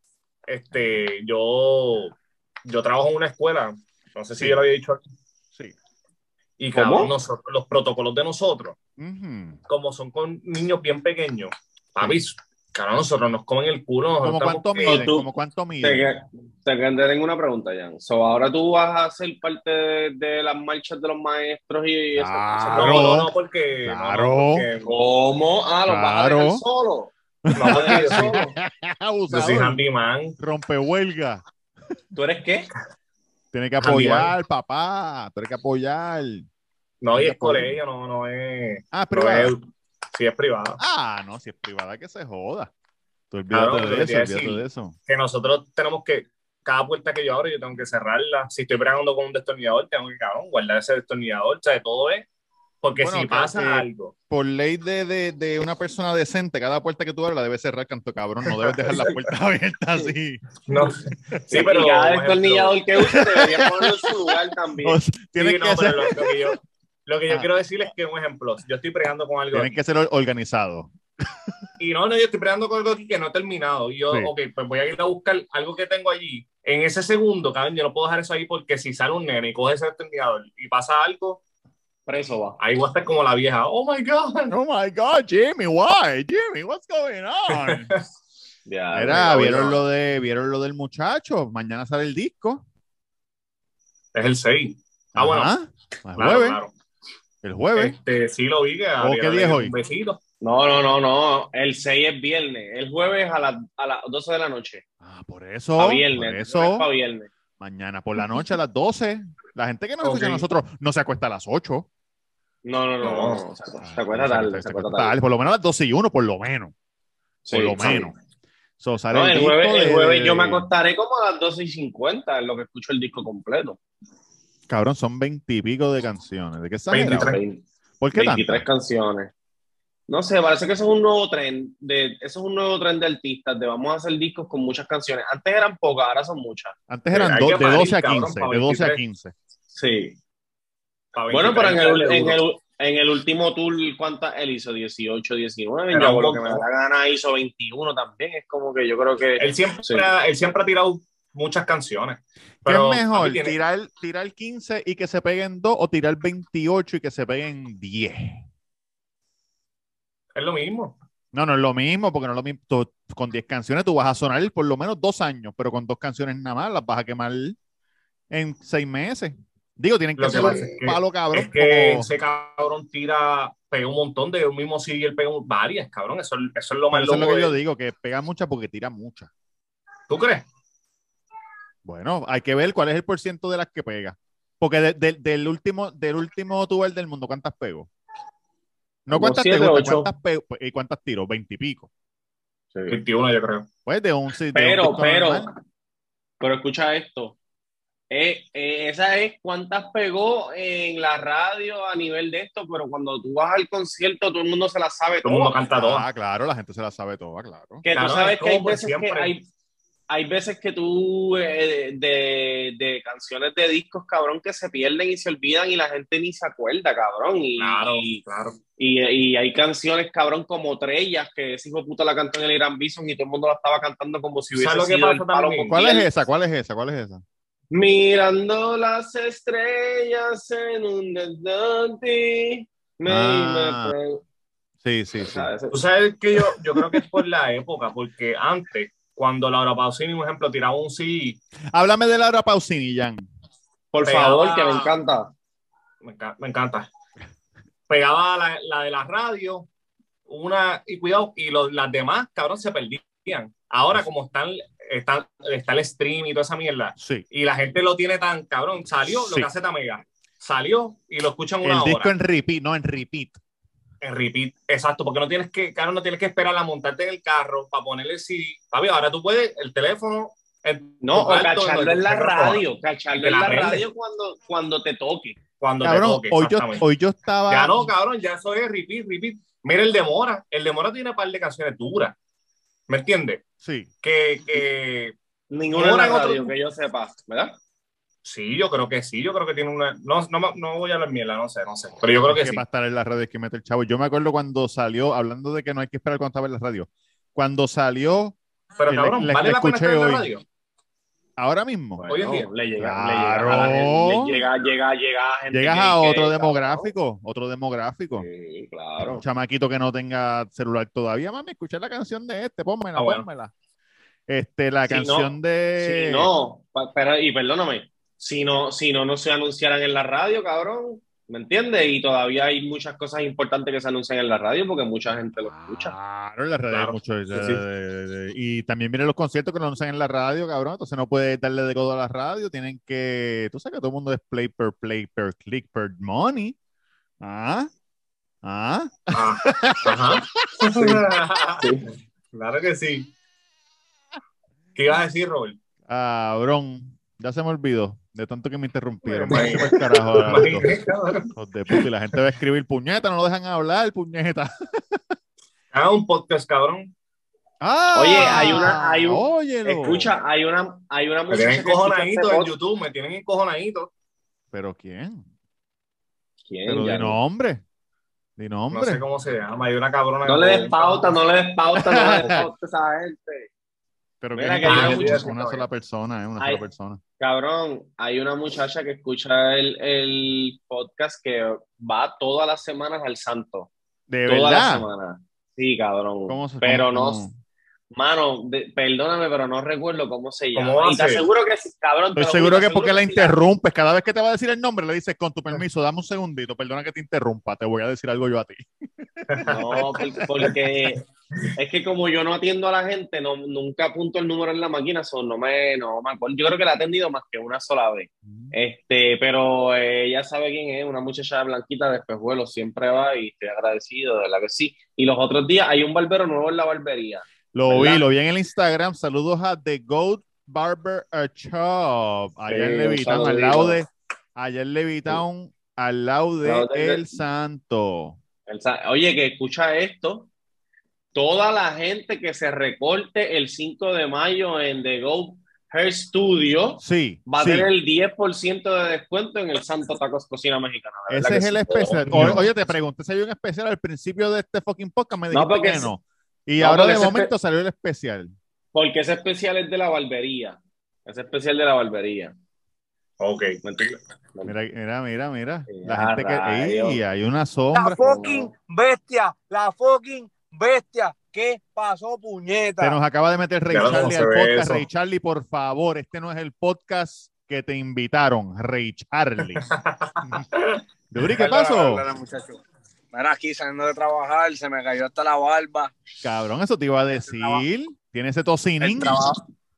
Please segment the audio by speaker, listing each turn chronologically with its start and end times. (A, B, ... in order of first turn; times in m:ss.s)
0:00.5-0:05.0 A
0:06.6-0:08.8 A
0:06.7-0:07.1 B
0:09.0-0:09.6 C
0:09.7-0:15.0 A
0:14.2-0:16.2 C
0:14.8-0:15.3 B
0:15.8-0:23.0 B
0:22.1-0:23.3 C
0:22.7-0:24.9 A
0:23.8-0:24.7 C
0:24.8-0:28.5 B
0:25.9-0:26.6 C
0:27.4-0:29.8 C
0:27.5-0:28.4 A
0:29.3-0:30.4 A
0:30.4-0:31.4 C
0:32.1-0:32.7 B
0:33.5-0:36.5 C
0:33.8-0:34.3 A
0:37.0-0:40.8 A
0:37.1-0:37.8 C
0:38.9-0:39.5 C
0:40.8-0:42.7 C
0:43.3-0:44.9 C
0:43.5-0:52.2 A
0:52.8-0:54.1 A
0:52.9-1:00.4 C
1:00.7-1:02.8 A
1:01.5-1:05.0 B
1:03.0-1:06.5 C
1:05.4-1:09.7 A
1:09.5-1:10.9 C
1:11.8-1:21.4 A
1:22.1-1:22.6 B
1:22.6-1:24.5 A
1:24.5-1:27.9 C
1:27.5-1:28.0 A
1:28.6-1:29.8 B
1:28.9-1:32.6 C
1:34.1-1:35.5 A
1:35.2-1:36.6 C
1:36.2-1:36.7 A
1:37.4-1:38.0 C
1:37.7-1:40.2 A
1:39.0-1:39.7 C
1:40.4-1:44.8 B
1:45.0-1:46.9 C
1:45.8-1:47.3 B
1:47.6-1:51.9 C
1:50.0-1:50.4 A
1:52.6-1:55.1 B
1:53.0-1:53.4 A
1:53.8-1:56.7 C
1:57.4-1:58.1 B
1:57.5-1:58.1 C
1:58.8-2:00.7 C
1:59.1-2:03.8 B
2:04.7-2:07.4 C
2:06.9-2:07.4 A
2:07.0-2:09.3 B
2:08.0-2:08.6 C
2:10.1-2:16.7 B
2:16.9-2:19.3 C
2:17.1-2:19.0 A
2:19.7-2:20.2 B
2:21.1-2:22.4 A
2:21.3-2:30.1 B
2:25.9-2:26.6 A
2:29.4-2:33.5 A
2:32.6-2:38.4 C
2:40.3-2:41.0 A
2:41.3-2:47.6 C
2:48.3-2:52.1 C
2:50.2-2:57.5 A
2:56.9-2:59.3 C
3:00.1-3:00.4 A
3:01.8-3:07.9 C
3:09.0-3:11.9 C
3:09.1-3:10.1 B
3:12.7-3:13.0 B
3:12.9-3:13.7 A
3:13.8-3:15.5 C
3:14.5-3:15.5 B
3:16.4-3:17.4 B
3:18.1-3:25.6 B
3:25.2-3:26.1 A
3:25.7-3:27.8 C
3:27.8-3:29.4 B
3:27.9-3:29.3 A
3:30.1-3:38.2 B
3:37.6-3:38.6 A
3:38.8-3:46.0 B
3:44.5-3:45.9 A
3:45.7-3:47.2 C
3:47.7-3:54.2 B
3:53.0-3:53.9 C
3:54.8-3:55.5 C
3:55.2-3:55.8 B
3:55.7-4:01.4 A
4:01.7-4:03.2 C
4:03.9-4:05.3 B
4:04.0-4:04.9 A
4:06.0-4:06.9 A
4:07.9-4:09.7 A
4:10.3-4:22.1 A
4:17.0-4:17.2 C
4:19.2-4:19.5 C
4:21.6-4:23.4 C
4:24.0-4:32.6 A
4:31.0-4:35.4 B
4:33.1-4:33.8 A
4:35.6-4:36.8 A
4:35.8-4:37.9 C
4:37.5-4:42.2 A
4:42.9-4:43.4 A
4:43.6-4:43.9 C
4:44.0-4:45.1 A
4:45.5-4:47.6 B
4:45.7-4:46.5 A
4:48.2-4:52.6 A
4:52.3-5:00.3 C
4:58.8-5:00.4 A
5:01.4-5:02.0 C
5:02.0-5:06.9 B
5:02.1-5:02.5 A
5:02.8-5:04.4 C
5:05.5-5:08.2 C
5:08.2-5:09.2 B
5:09.0-5:13.5 C
5:12.9-5:13.2 A
5:14.3-5:16.3 C
5:14.8-5:25.9 B
5:25.4-5:36.6 C
5:26.7-5:27.6 A
5:37.2-5:37.7 C
5:38.4-5:40.3 C
5:39.1-5:41.6 A
5:40.7-5:41.0 B
5:41.6-5:41.9 B
5:42.3-5:43.1 A
5:44.8-5:45.6 A
5:45.9-5:50.7 C
5:49.0-5:49.7 B
5:49.3-5:51.3 A
5:51.3-5:55.0 C
5:55.7-5:56.9 A
5:57.6-6:00.1 C
5:57.9-6:02.5 B
5:58.1-5:58.7 A
6:01.3-6:03.9 A
6:04.5-6:05.2 C
6:06.5-6:07.2 B
6:06.7-6:07.6 C
6:08.4-6:09.0 C
6:08.7-6:11.2 A
6:10.2-6:13.5 B
6:11.8-6:12.5 C
6:14.2-6:17.0 C
6:14.3-6:15.6 B
6:14.6-6:15.3 A
6:16.4-6:16.6 B
6:17.2-6:23.7 B
6:24.1-6:24.8 C
6:24.2-6:27.2 B
6:26.3-6:27.4 C
6:27.9-6:33.4 B
6:30.5-6:31.2 A
6:32.1-6:38.7 C
6:39.2-6:40.5 C
6:39.3-6:39.6 A
6:39.4-6:41.0 B
6:41.5-6:58.0 B
6:48.3-6:48.5 C
6:57.5-7:08.2 C
7:02.5-7:03.8 B
7:06.4-7:07.1 B
7:08.5-7:10.3 B
7:11.1-7:22.5 B
7:16.8-7:17.7 C
7:21.1-7:28.3 C
7:22.0-7:22.4 A
7:25.3-7:25.9 B
7:26.6-7:27.3 B
7:28.7-7:32.3 B
7:33.2-7:33.6 A
7:33.6-7:34.5 B
7:34.4-7:38.0 C
7:35.7-7:37.0 B
7:37.7-7:43.0 D
7:38.0-7:38.5 B
7:42.8-7:49.6 C
7:43.7-7:44.8 A
7:49.6-7:50.8 A
7:51.1-7:52.0 C
7:51.4-7:52.6 D
7:53.1-7:55.9 D
7:56.2-7:59.2 C
7:57.2-7:57.6 D
7:58.8-7:59.4 D